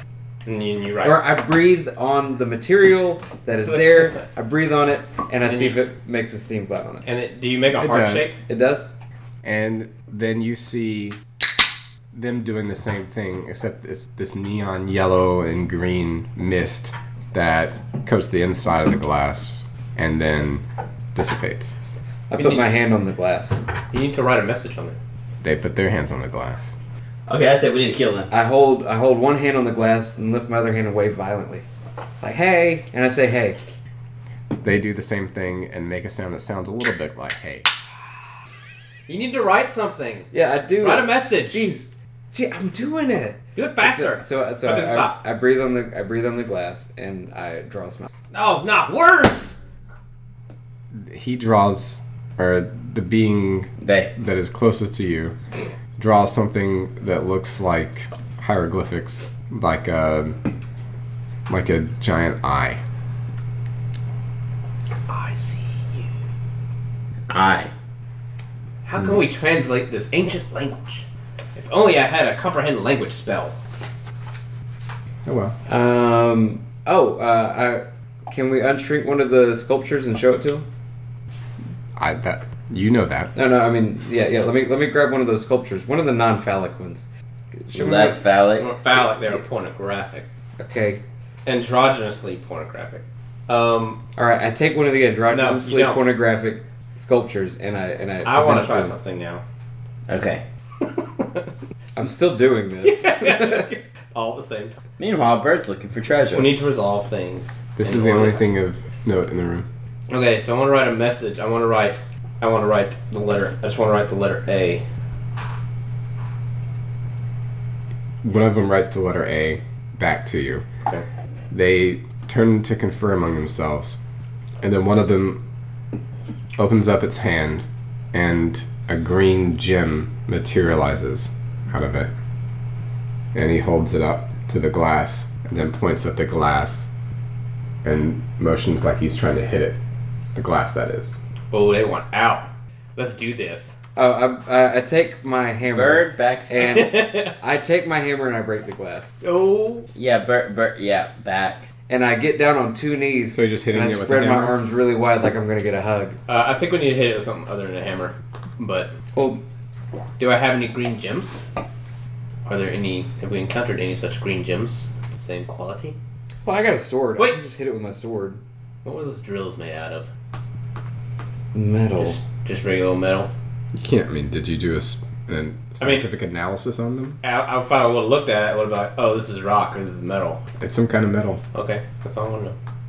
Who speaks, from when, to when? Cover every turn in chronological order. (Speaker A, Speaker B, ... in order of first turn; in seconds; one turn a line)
Speaker A: 0.5-1.2
Speaker B: 1.0-7.1
Speaker A: 3.6-4.3
Speaker A: 5.5-5.8
Speaker A: 7.0-8.4
Speaker C: 7.8-8.4
Speaker B: 8.4-8.9
Speaker C: 9.4-11.2
Speaker C: 12.1-21.8
Speaker B: 22.3-23.6
Speaker A: 22.4-22.7
Speaker A: 23.9-25.0
Speaker C: 25.4-26.8
Speaker D: 27.3-28.3
Speaker B: 28.3-31.7
Speaker B: 32.2-33.6
Speaker C: 34.6-37.7
Speaker A: 39.1-40.3
Speaker B: 40.3-48.1
Speaker A: 40.8-41.7
Speaker A: 43.5-45.1
Speaker A: 48.3-49.6
Speaker C: 50.9-55.4
Speaker D: 53.8-54.1
Speaker C: 56.0-60.4
Speaker C: 61.5-62.8
Speaker A: 65.1-66.1
Speaker D: 67.3-67.7
Speaker A: 68.8-71.0
Speaker A: 71.6-73.6
Speaker C: 75.2-75.6
Speaker B: 75.7-80.7
Speaker C: 82.0-83.3
Speaker B: 83.3-88.2
Speaker D: 87.7-88.7
Speaker A: 88.6-90.3
Speaker B: 90.6-91.0
Speaker A: 91.5-94.0
Speaker B: 94.2-99.0
Speaker A: 95.3-96.0
Speaker A: 98.2-99.4
Speaker D: 100.1-100.4
Speaker B: 102.0-103.7
Speaker A: 102.8-104.8
Speaker D: 105.0-106.6
Speaker A: 106.3-108.4
Speaker C: 107.8-109.7
Speaker A: 110.1-114.8
Speaker C: 118.2-120.6
Speaker C: 121.5-124.0
Speaker C: 124.6-125.4
Speaker C: 126.6-132.1
Speaker C: 133.3-136.9
Speaker C: 137.8-139.8
Speaker C: 140.3-141.2
Speaker A: 141.5-143.8
Speaker B: 144.0-149.1
Speaker D: 145.7-146.9
Speaker A: 146.6-147.3
Speaker A: 149.2-149.9
Speaker D: 149.9-151.7
Speaker B: 151.9-156.2
Speaker C: 153.3-154.6
Speaker A: 156.3-158.9
Speaker B: 159.1-159.4
Speaker A: 160.2-161.4
Speaker A: 162.4-166.0
Speaker B: 166.4-168.4
Speaker A: 168.8-170.1
Speaker B: 171.5-172.2
Speaker A: 172.0-173.3
Speaker C: 173.7-177.2
Speaker A: 175.8-176.1
Speaker A: 177.2-180.4
Speaker C: 180.6-181.4
Speaker A: 181.5-182.6